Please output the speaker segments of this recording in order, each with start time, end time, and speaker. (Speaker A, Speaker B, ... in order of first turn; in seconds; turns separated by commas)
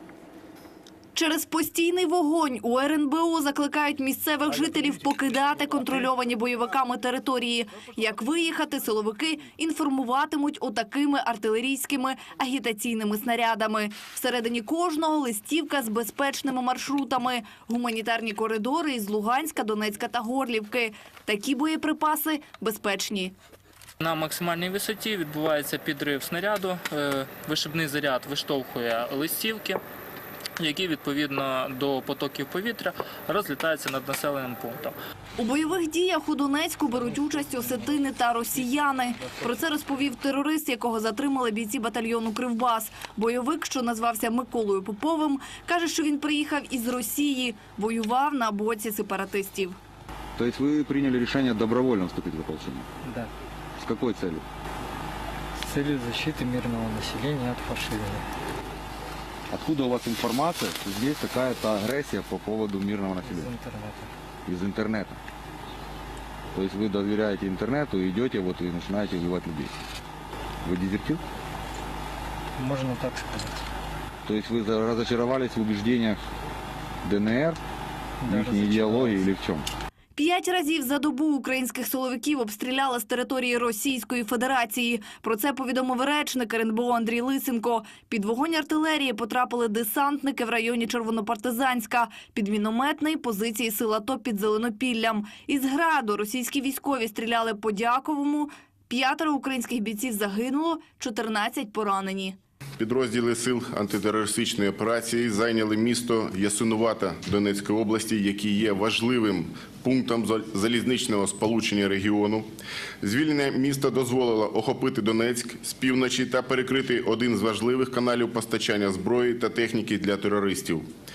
Speaker A: 1.1-23.3, Speaker B: 24.0-29.8, Speaker B: 30.6-34.9, Speaker A: 35.4-49.8, Speaker C: 36.9-38.0, Speaker D: 50.4-52.9, Speaker C: 53.0-53.3, Speaker D: 53.8-54.4, Speaker C: 55.6-58.3, Speaker D: 59.5-63.5, Speaker C: 63.2-64.1, Speaker D: 64.4-65.2, Speaker D: 66.5-69.7, Speaker D: 70.6-71.2, Speaker C: 72.6-73.6, Speaker D: 74.2-76.2, Speaker D: 77.0-77.6, Speaker C: 78.2-79.2, Speaker D: 78.3-79.7, Speaker A: 80.1-102.3, Speaker E: 102.8-112.5, Speaker E: 113.0-120.8